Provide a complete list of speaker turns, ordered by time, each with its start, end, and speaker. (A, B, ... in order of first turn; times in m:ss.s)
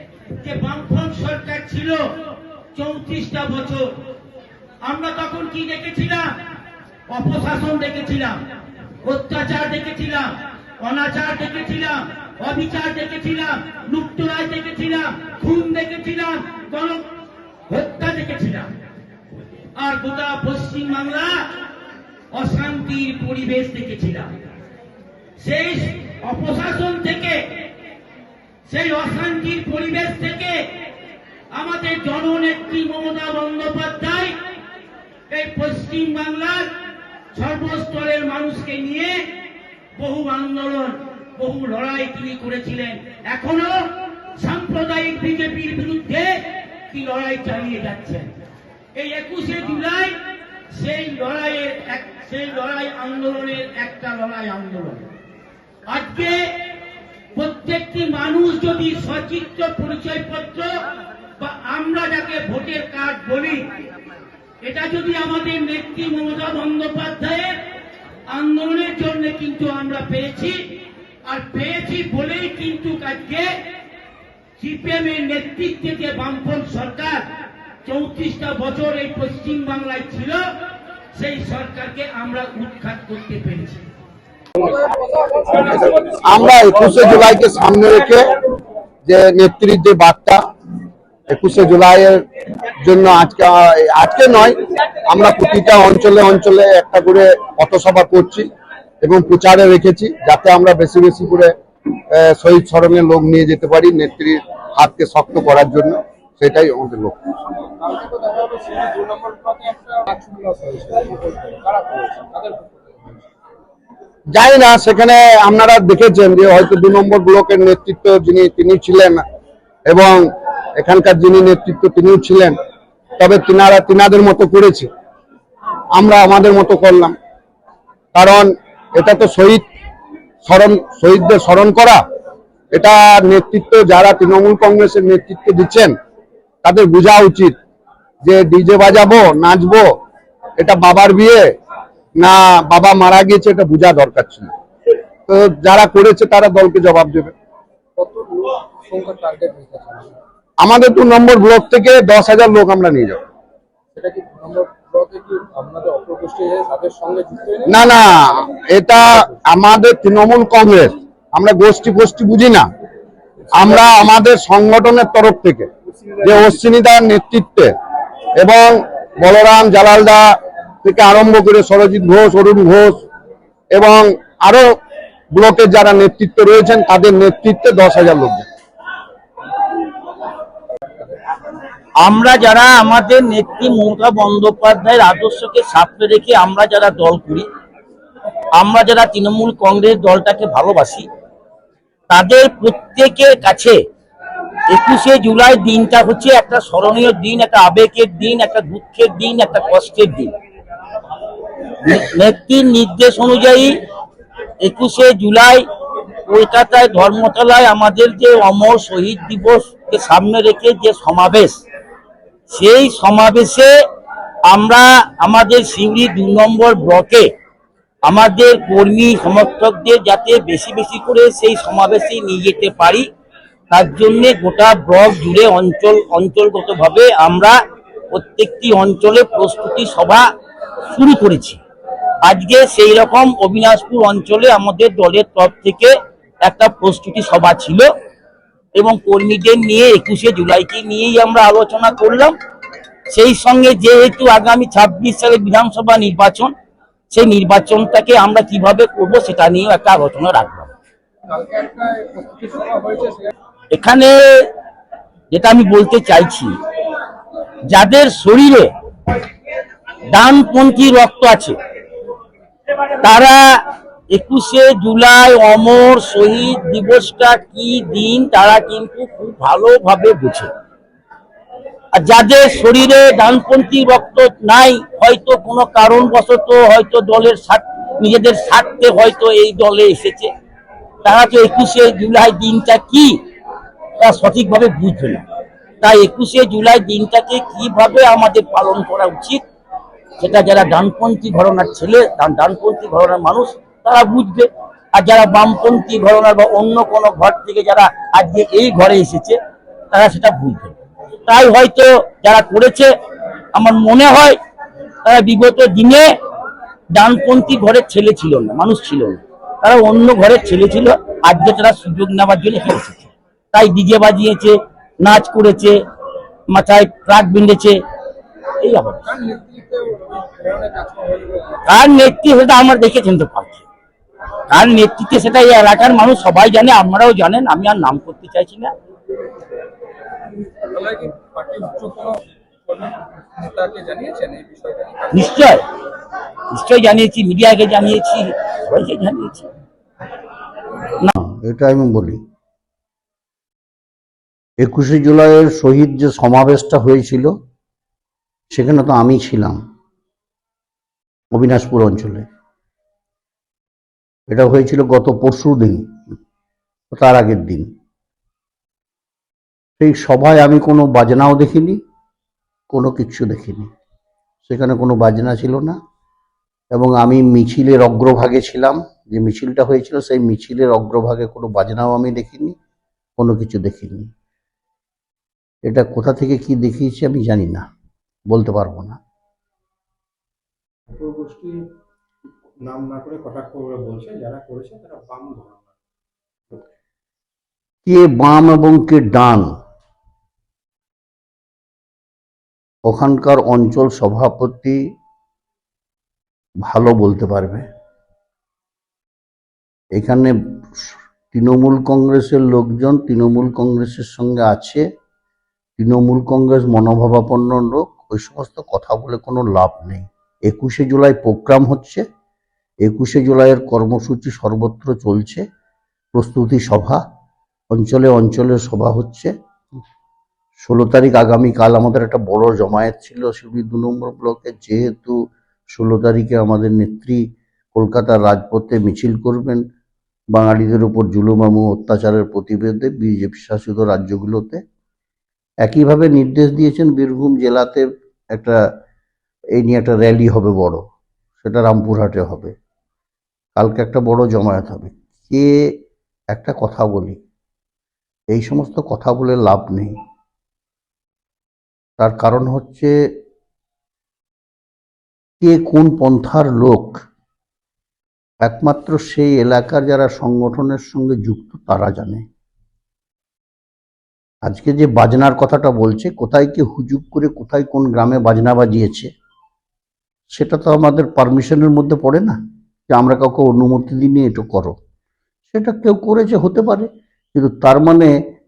0:00.4-0:02.1 A
0:02.7-0:04.0 A
0:04.8-0:06.4 A
0:07.1-0:08.4 A
0:09.0-0:17.1 A
0:17.7-0:18.7 A
0:19.7-0:21.6 A
0:22.3-0:24.3 A
0:25.4-0:27.6 A
0:28.6-0:30.7 A
0:31.5-0:34.4 A
0:35.3-0:36.7 A
0:37.3-0:39.2 A
0:39.9-0:48.3 A
0:48.9-0:50.2 A
0:50.7-0:55.1 A
0:55.9-0:56.5 A
0:57.3-1:00.7 A
1:01.4-1:03.6 A
1:04.6-1:07.6 A
1:08.3-1:10.6 A
1:11.2-1:13.6 A
1:14.6-1:17.2 A
1:17.8-1:20.5 A
1:21.1-1:23.8 A
1:24.6-1:26.5 B
1:26.2-1:28.2 C
1:29.0-1:30.4 C
1:31.3-1:32.2 C
1:32.8-1:34.6 C
1:35.1-1:38.5 C
1:39.0-1:41.5 C
1:42.1-1:47.2 C
1:47.5-1:53.3 B
1:54.3-1:59.2 C
1:59.8-2:02.6 C
2:03.2-2:04.9 C
2:05.9-2:07.2 C
2:08.1-2:09.6 C
2:10.4-2:12.0 C
2:12.7-2:15.9 C
2:16.6-2:17.5 C
2:18.2-2:20.0 C
2:20.6-2:21.4 C
2:22.2-2:24.5 C
2:25.3-2:27.3 C
2:28.0-2:30.2 B
2:30.6-2:33.2 C
2:33.9-2:38.0 B
2:37.7-2:42.6 C
2:43.5-2:45.7 C
2:43.6-2:44.0 B
2:46.2-2:47.7 C
2:48.4-2:50.3 C
2:50.8-2:53.0 C
2:53.7-2:54.6 C
2:55.3-2:58.4 C
3:02.0-3:07.4 D
3:08.5-3:11.1 D
3:12.1-3:13.8 D
3:14.7-3:20.3 D
3:21.8-3:23.8 D
3:24.6-3:25.6 D
3:26.3-3:31.6 D
3:32.5-3:33.7 D
3:34.5-3:37.3 D
3:38.0-3:43.0 D
3:43.7-3:47.5 D
3:48.1-3:50.2 D
3:50.9-3:51.6 D
3:52.2-3:55.9 D
3:56.4-3:57.9 D
3:58.8-4:02.3 D
4:03.1-4:06.5 D
4:07.1-4:10.7 D
4:11.3-4:13.3 B
4:13.7-4:14.1 D
4:15.3-4:16.5 D
4:17.7-4:18.7 D
4:20.1-4:21.6 D
4:23.0-4:23.4 D
4:24.1-4:30.5 D
4:31.9-4:40.3 D
4:41.0-4:43.1 D
4:44.0-4:45.2 D
4:45.8-4:49.4 D
4:50.2-4:59.4 D
4:59.9-5:00.7 D
5:01.2-5:02.9 D
5:03.5-5:04.4 D
5:05.0-5:06.1 D
5:06.9-5:15.8 D
5:16.5-5:17.8 D
5:18.6-5:19.1 D
5:19.0-5:21.8 B
5:21.6-5:23.6 D
5:24.5-5:28.7 D
5:30.7-5:35.4 B
5:35.1-5:35.6 D
5:36.5-5:39.5 D
5:41.2-5:42.2 E
5:44.6-5:47.3 E
5:48.5-5:49.6 E
5:51.3-5:52.2 E
5:54.3-5:55.8 E
5:56.9-5:57.6 E
5:59.8-6:01.8 E
6:02.7-6:03.7 E
6:04.4-6:05.7 E
6:06.7-6:12.5 E
6:13.2-6:14.1 E
6:15.7-6:17.6 E
6:18.3-6:19.0 E
6:20.9-6:21.6 B
6:22.6-6:25.7 B
6:27.8-6:29.5 E
6:32.9-6:34.8 E
6:36.7-6:37.6 E
6:39.9-6:44.8 E
6:45.8-6:52.0 E
6:52.8-6:55.4 E
6:56.1-6:57.0 E
6:57.7-6:59.3 E
7:00.6-7:05.2 E
7:05.7-7:07.2 E
7:07.7-7:09.6 E
7:10.3-7:14.6 E
7:15.6-7:18.6 E
7:19.6-7:20.8 E
7:21.4-7:22.5 E
7:23.6-7:25.7 E
7:26.3-7:27.2 E
7:28.3-7:29.9 E
7:32.0-7:32.9 E
7:35.4-7:36.9 E
7:38.4-7:42.2 E
7:44.5-7:49.1 E
7:50.3-7:52.4 E
7:52.9-7:54.8 E
7:55.5-7:58.1 E